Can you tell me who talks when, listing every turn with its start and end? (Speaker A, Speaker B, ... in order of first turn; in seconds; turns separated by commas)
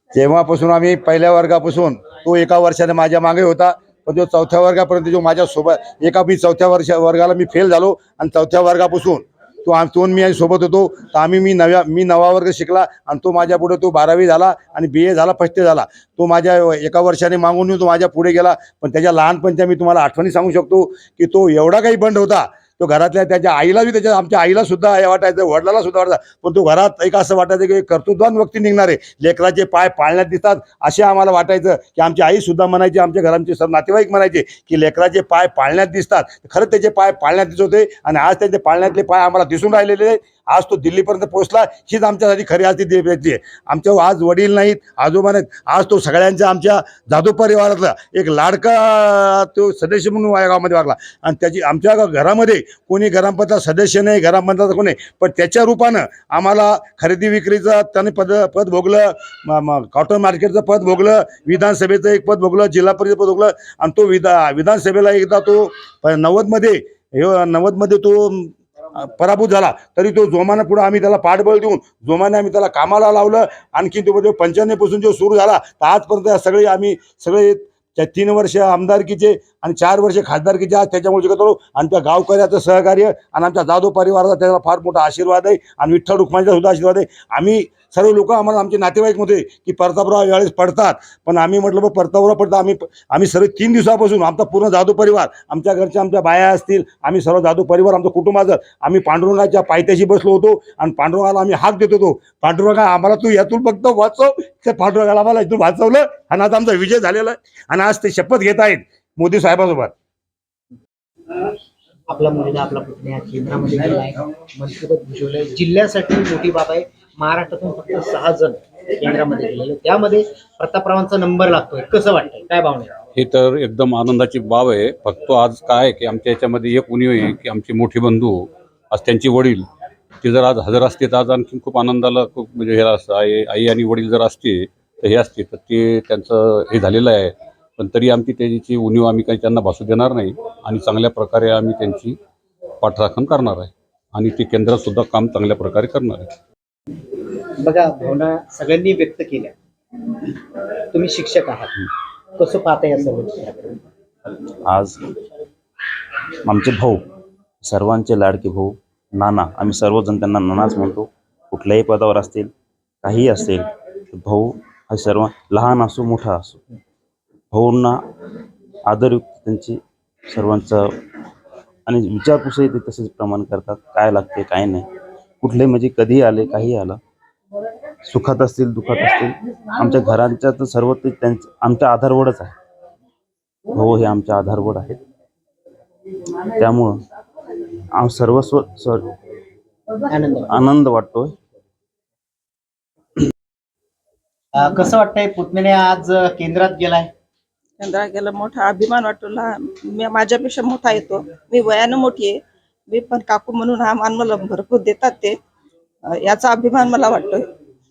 Speaker A: 0.1-109.9, Speaker B: 112.1-122.9, Speaker C: 123.1-129.7, Speaker C: 130.2-142.1, Speaker C: 142.8-146.3, Speaker B: 147.6-149.5, Speaker B: 150.9-151.8, Speaker B: 152.4-153.8, Speaker D: 154.7-155.0, Speaker D: 156.4-157.0, Speaker D: 157.6-162.5, Speaker D: 163.0-166.6, Speaker D: 167.5-168.0, Speaker D: 168.8-171.0, Speaker D: 171.8-174.9, Speaker D: 175.4-177.0, Speaker D: 178.0-182.5, Speaker D: 183.7-185.0, Speaker D: 186.5-187.0, Speaker D: 187.9-189.1, Speaker B: 190.1-190.6, Speaker D: 190.5-191.3, Speaker B: 194.5-197.1, Speaker E: 197.8-202.4, Speaker E: 202.9-205.3, Speaker E: 206.2-207.4